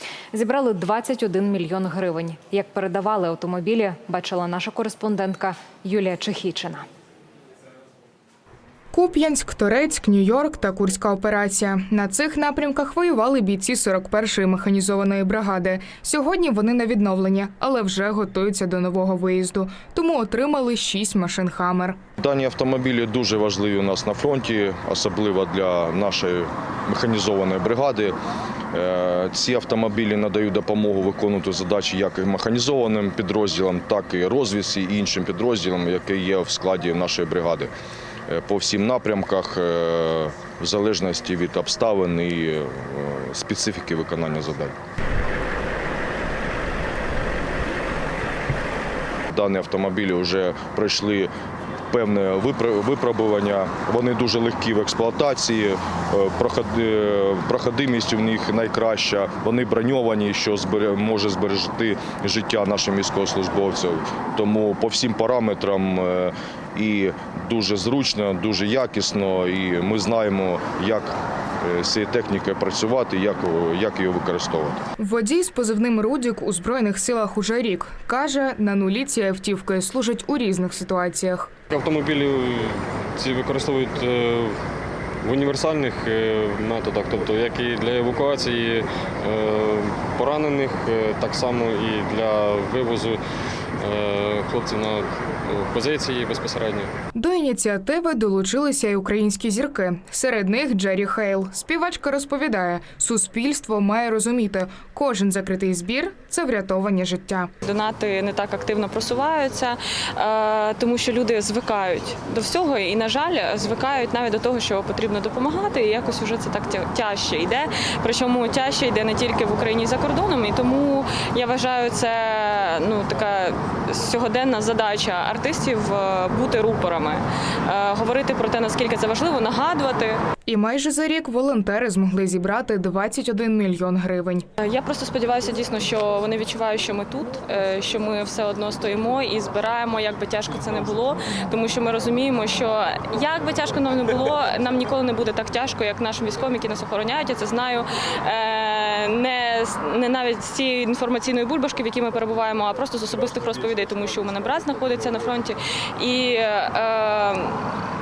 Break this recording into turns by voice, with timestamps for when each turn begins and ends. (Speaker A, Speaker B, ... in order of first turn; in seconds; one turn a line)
Speaker A: 0.3-6.9
Speaker B: 8.9-22.0
Speaker C: 22.2-28.2
Speaker C: 28.7-37.7
Speaker C: 38.3-44.8
Speaker C: 49.3-51.3
Speaker C: 51.9-74.9
Speaker B: 75.0-81.5
Speaker D: 81.7-84.6
Speaker D: 85.2-93.2
Speaker D: 93.8-96.9
Speaker B: 97.2-107.5
Speaker E: 107.6-130.2
Speaker B: 130.5-134.5
Speaker E: 134.6-157.7